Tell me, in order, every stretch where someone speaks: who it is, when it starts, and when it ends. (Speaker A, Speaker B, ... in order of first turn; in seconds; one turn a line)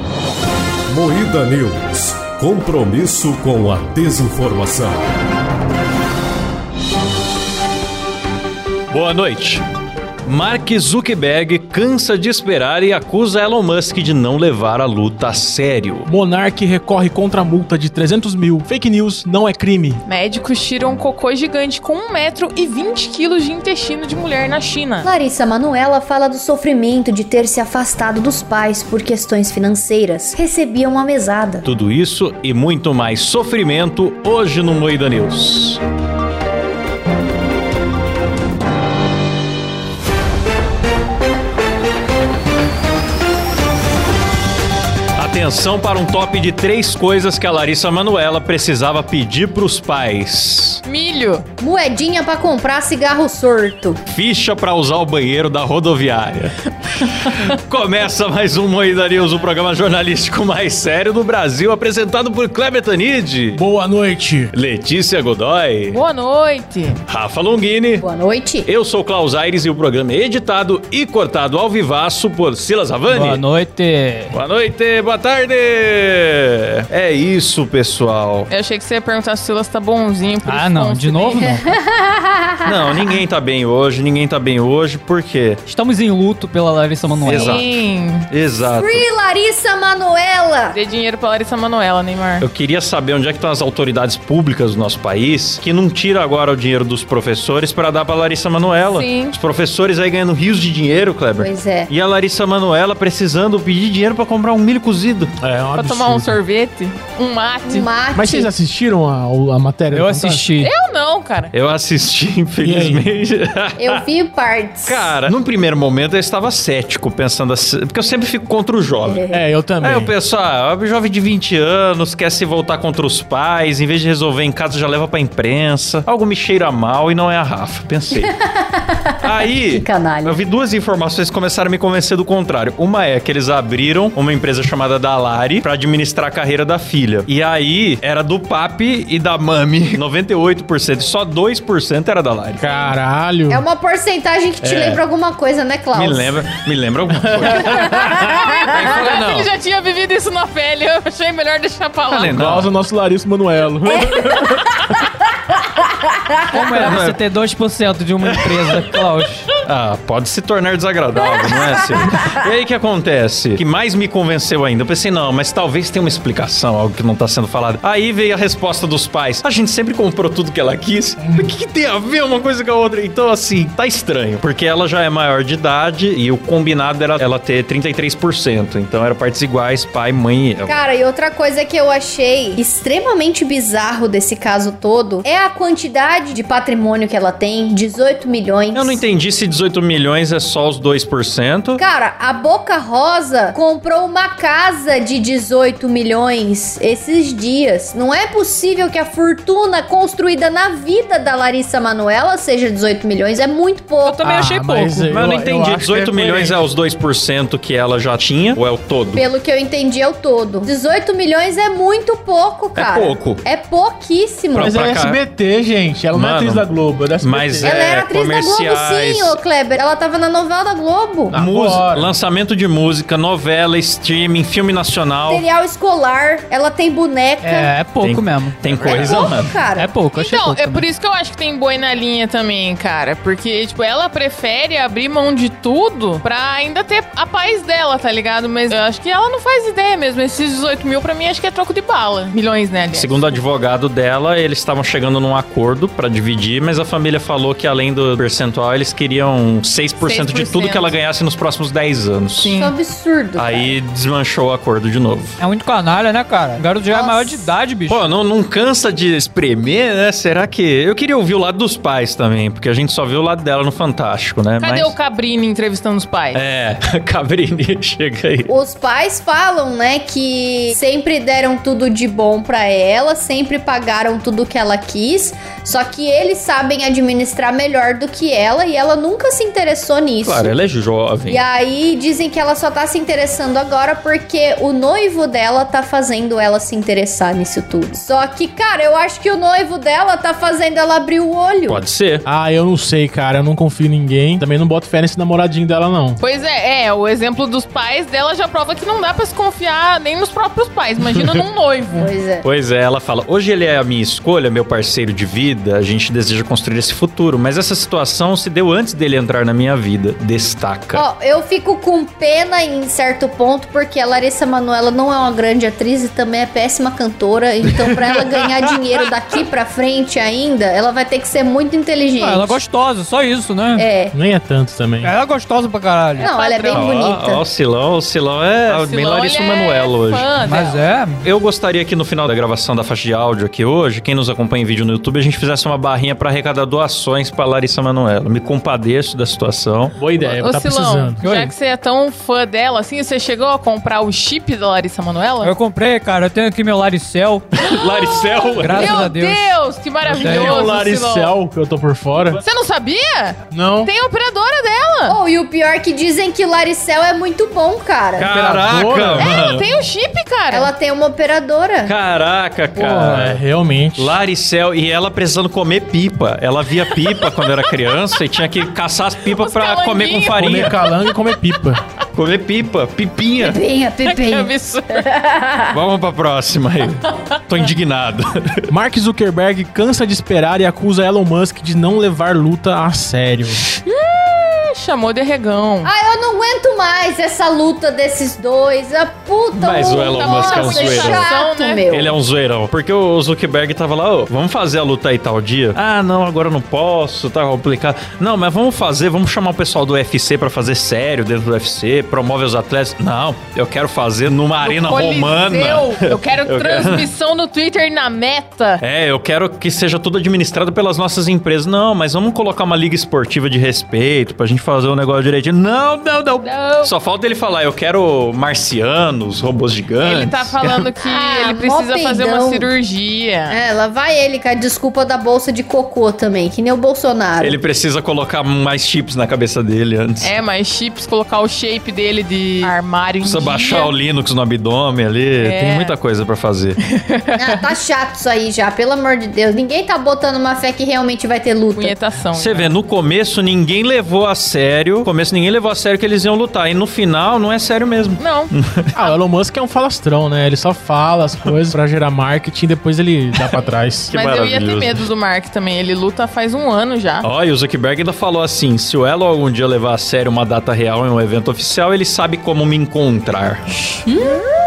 Speaker A: 0.9-5.0
Speaker B: 8.9-9.6
Speaker B: 10.2-16.1
Speaker C: 16.0-20.0
Speaker D: 20.0-25.1
Speaker E: 25.0-31.7
Speaker B: 31.6-35.8
Speaker B: 45.2-50.8
Speaker D: 50.8-51.4
Speaker E: 51.6-54.0
Speaker B: 54.1-63.6
Speaker C: 63.5-64.5
Speaker B: 64.5-66.0
Speaker D: 65.9-67.0
Speaker B: 67.1-68.0
Speaker E: 68.0-68.7
Speaker B: 68.6-73.4
Speaker F: 73.1-74.3
Speaker B: 74.3-78.5
Speaker D: 78.5-81.4
Speaker F: 80.4-81.8
Speaker E: 81.4-83.0
Speaker B: 82.7-85.6
Speaker F: 85.7-87.6
Speaker B: 87.2-87.7
Speaker D: 87.3-88.3
Speaker B: 88.3-89.0
Speaker E: 88.6-90.8
Speaker D: 90.7-92.5
Speaker B: 92.4-105.3
Speaker D: 98.8-99.3
Speaker E: 101.4-101.9
Speaker C: 105.4-106.4
Speaker D: 105.7-107.9
Speaker E: 107.7-108.5
Speaker C: 108.1-110.4
Speaker F: 109.9-110.7
Speaker D: 110.6-111.5
Speaker B: 111.5-114.0
Speaker C: 112.6-113.0
Speaker E: 113.8-115.2
Speaker B: 114.8-119.2
Speaker E: 119.0-119.5
Speaker C: 119.3-120.1
Speaker B: 119.8-128.3
Speaker E: 128.2-130.4
Speaker B: 129.2-142.9
Speaker C: 142.6-143.6
Speaker E: 143.5-146.4
Speaker B: 144.6-145.0
Speaker B: 145.9-149.5
Speaker D: 148.0-152.4
Speaker B: 152.1-152.7
Speaker C: 152.2-154.6
Speaker E: 154.0-154.6
Speaker F: 156.5-159.5
Speaker B: 156.6-157.2
Speaker B: 158.2-158.9
Speaker B: 159.6-180.8
Speaker E: 180.6-189.0
Speaker B: 188.7-191.8
Speaker E: 191.8-204.2
Speaker F: 204.0-205.2
Speaker C: 204.2-206.6
Speaker B: 205.1-209.2
Speaker E: 209.1-214.8
Speaker B: 212.7-213.4
Speaker B: 214.6-215.2
Speaker C: 214.6-217.7
Speaker B: 216.1-216.7
Speaker B: 217.2-219.4
Speaker E: 217.6-221.4
Speaker B: 221.3-225.4
Speaker C: 221.3-222.1
Speaker E: 225.3-227.7
Speaker F: 227.4-230.8
Speaker B: 228.0-229.6
Speaker E: 228.8-229.9
Speaker D: 230.1-243.4
Speaker B: 242.9-252.5
Speaker D: 250.0-250.9
Speaker D: 252.4-252.7
Speaker E: 252.5-253.8
Speaker B: 253.4-255.4
Speaker F: 255.4-258.0
Speaker E: 256.9-257.5
Speaker B: 257.9-264.9
Speaker D: 264.6-266.5
Speaker B: 266.3-268.5
Speaker E: 268.5-280.5
Speaker B: 280.2-281.4
Speaker E: 281.3-291.8
Speaker B: 291.7-292.2
Speaker C: 292.2-296.2
Speaker D: 296.2-302.1
Speaker E: 302.0-302.4
Speaker B: 302.4-311.0
Speaker E: 310.9-322.6
Speaker F: 322.2-323.9
Speaker E: 323.8-324.1
Speaker C: 324.1-325.1
Speaker F: 325.0-326.3
Speaker D: 326.2-326.9
Speaker E: 326.2-327.4
Speaker B: 326.7-330.3
Speaker D: 328.6-330.9
Speaker F: 330.4-331.2
Speaker B: 331.2-340.0
Speaker C: 340.0-341.2
Speaker D: 340.2-345.5
Speaker F: 341.2-341.5
Speaker F: 345.4-347.6
Speaker B: 347.6-349.0
Speaker D: 347.9-351.4
Speaker F: 348.6-349.6
Speaker F: 350.1-350.6
Speaker C: 350.1-352.4
Speaker D: 352.4-355.2
Speaker C: 353.5-353.9
Speaker E: 355.1-358.3
Speaker B: 358.1-359.6
Speaker C: 358.4-359.2
Speaker D: 359.1-360.7
Speaker E: 360.5-361.9
Speaker B: 361.9-363.4
Speaker F: 362.8-363.1
Speaker C: 362.9-364.2
Speaker B: 364.0-370.8
Speaker D: 367.2-367.8
Speaker D: 369.2-371.3
Speaker C: 370.3-371.8
Speaker B: 372.1-373.6
Speaker E: 373.4-375.8
Speaker D: 374.0-375.1
Speaker B: 375.7-378.7
Speaker C: 378.7-383.6
Speaker D: 383.8-385.9
Speaker E: 385.8-392.1
Speaker B: 389.5-391.3
Speaker D: 390.1-391.8
Speaker B: 391.9-407.1
Speaker D: 404.6-408.8
Speaker B: 408.8-420.8
Speaker D: 416.4-416.9
Speaker D: 420.0-423.6
Speaker E: 421.1-422.7
Speaker E: 423.5-427.6
Speaker B: 427.4-430.4
Speaker D: 430.2-433.9
Speaker B: 433.2-436.8
Speaker D: 435.4-435.9
Speaker D: 436.8-437.6
Speaker E: 437.4-441.9
Speaker D: 441.7-442.7
Speaker B: 442.4-448.9
Speaker D: 448.2-448.5
Speaker C: 448.9-454.1
Speaker B: 453.4-455.0
Speaker D: 454.1-457.2
Speaker B: 457.2-463.6
Speaker D: 464.0-464.5